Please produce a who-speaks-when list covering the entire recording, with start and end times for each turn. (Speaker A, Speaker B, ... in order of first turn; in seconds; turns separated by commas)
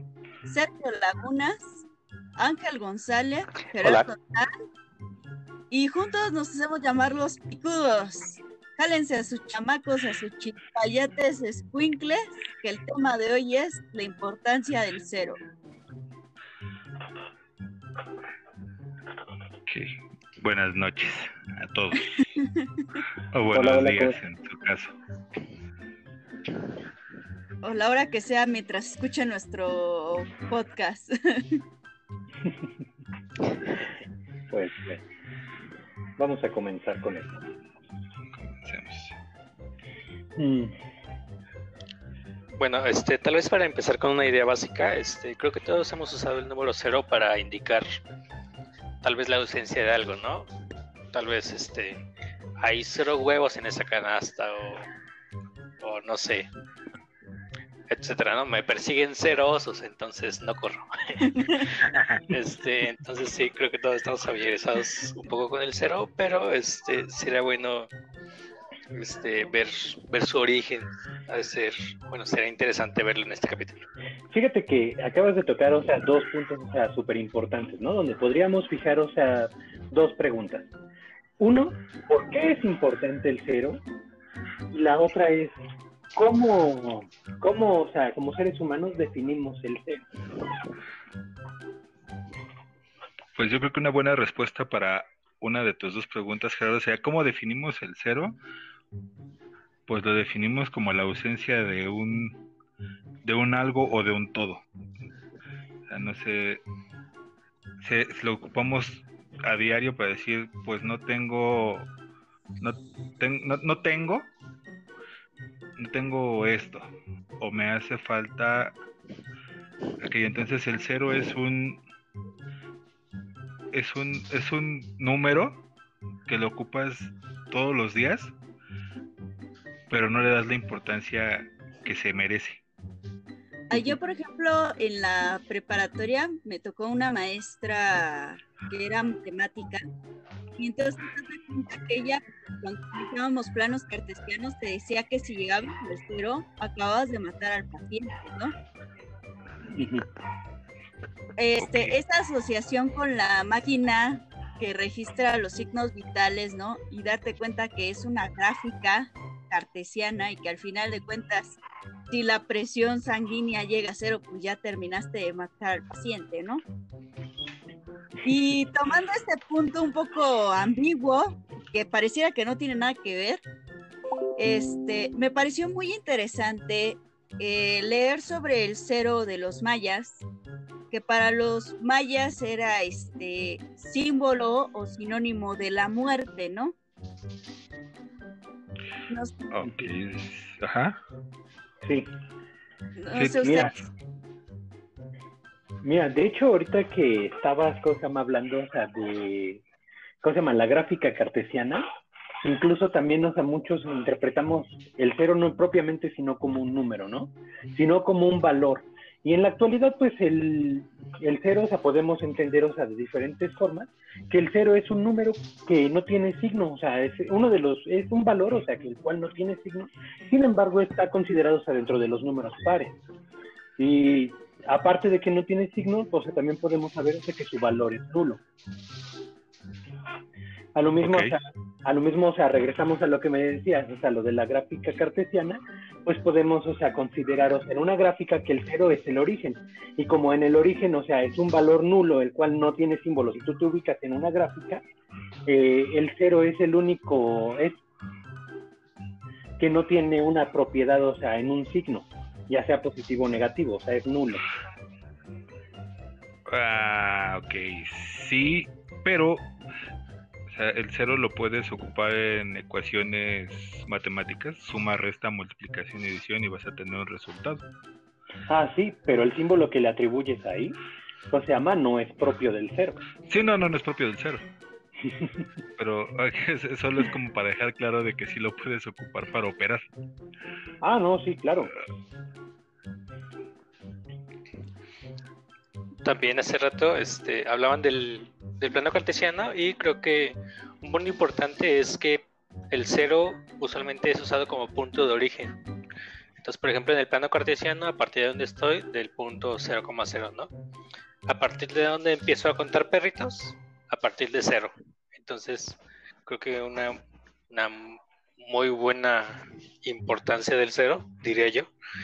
Speaker A: 0.5-1.8, Speaker A: 2.4-4.5, Speaker B: 3.8-4.1, Speaker A: 5.7-15.4, Speaker C: 19.7-22.2, Speaker C: 23.3-24.9, Speaker D: 23.5-24.2, Speaker A: 27.6-31.6, Speaker D: 34.5-35.0, Speaker D: 36.2-37.4, Speaker C: 38.4-39.1, Speaker D: 40.4-40.8, Speaker B: 42.6-47.9, Speaker B: 49.0-50.5, Speaker B: 51.1-52.0, Speaker B: 52.6-54.9, Speaker B: 55.8-56.5, Speaker B: 57.9-67.9, Speaker C: 61.9-62.2, Speaker B: 68.9-73.8, Speaker D: 74.3-80.7, Speaker D: 81.4-83.8, Speaker D: 84.7-85.5, Speaker D: 86.2-90.1, Speaker C: 93.4-98.4, Speaker C: 99.9-102.4, Speaker C: 103.2-104.6, Speaker C: 105.9-106.6, Speaker C: 107.8-111.9, Speaker C: 112.6-114.3, Speaker C: 115.8-118.8, Speaker C: 120.0-121.8, Speaker C: 123.7-125.6, Speaker C: 126.3-128.3, Speaker C: 129.9-132.6, Speaker A: 133.7-139.8, Speaker A: 140.6-148.5, Speaker D: 149.8-150.1, Speaker A: 151.4-161.6, Speaker A: 162.1-166.6, Speaker A: 168.2-173.4, Speaker A: 174.4-180.2, Speaker A: 180.9-186.8, Speaker C: 189.5-191.0, Speaker A: 193.0-193.8, Speaker C: 193.2-193.5, Speaker D: 193.4-193.7, Speaker D: 195.8-199.6, Speaker D: 200.2-201.9, Speaker D: 202.4-222.9, Speaker D: 223.8-228.4, Speaker D: 230.8-244.8, Speaker C: 231.0-231.4, Speaker D: 245.5-247.8, Speaker D: 249.6-254.4, Speaker C: 256.5-259.5, Speaker C: 260.5-267.6, Speaker D: 268.5-270.8, Speaker D: 271.3-273.1, Speaker C: 273.3-274.4, Speaker C: 275.8-279.9, Speaker D: 280.8-281.7, Speaker B: 286.0-295.6, Speaker B: 296.4-300.5, Speaker B: 301.3-307.0, Speaker B: 307.5-311.7